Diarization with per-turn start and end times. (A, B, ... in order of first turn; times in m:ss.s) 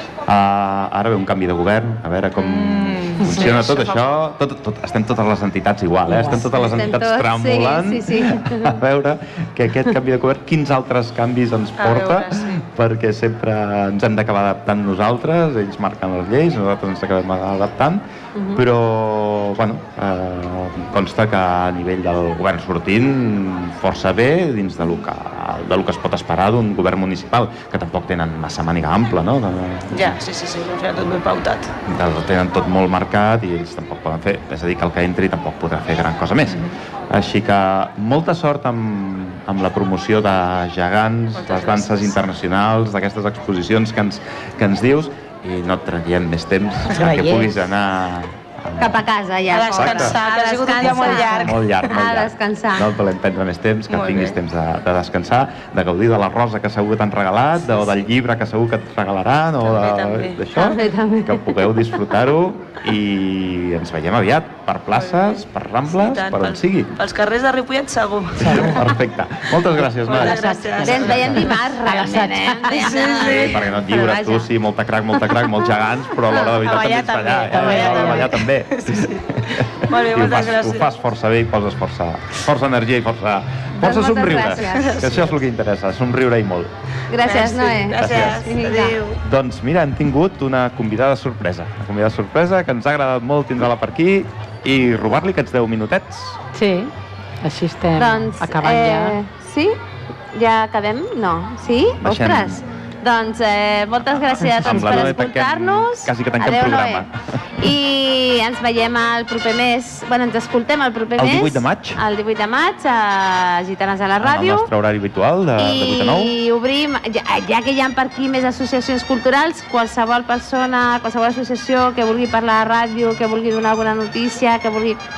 0:00.3-0:30.2 A
0:02.4-0:04.0 B
0:06.0-0:06.5 C
0:06.4-0:08.8 D
0:11.8-0:12.7 B
0:18.4-0:18.6 D
0:29.9-0:31.7 B
0:31.8-0:49.0 A
0:41.4-0:42.1 B
0:46.8-0:47.6 C
0:48.8-0:52.9 D
0:49.5-0:51.6 B
0:49.7-0:50.2 A
0:51.4-1:06.9 A
0:53.9-0:54.4 B
0:59.6-1:00.4 B
1:00.5-1:01.8 D
1:04.9-1:08.9 B
1:08.4-1:11.4 A
1:08.4-1:08.7 C
1:09.9-1:11.5 B
1:10.1-1:13.2 C
1:10.8-1:14.5 D
1:12.8-1:13.6 B
1:13.2-1:26.7 A
1:15.2-1:15.7 D
1:16.3-1:20.9 B
1:17.5-1:18.3 C
1:23.8-1:25.1 D
1:24.7-1:25.3 B
1:27.1-1:29.0 D
1:27.2-1:29.2 B
1:28.0-1:28.4 A
1:29.2-1:36.4 A
1:36.5-1:39.2 C
1:38.0-1:39.8 D
1:40.3-1:47.1 D
1:42.0-1:42.6 A
1:44.1-1:47.6 A
1:44.7-1:45.2 C
1:47.6-1:54.7 D
1:51.2-1:52.0 A
1:54.2-1:56.3 A
1:55.6-2:05.0 D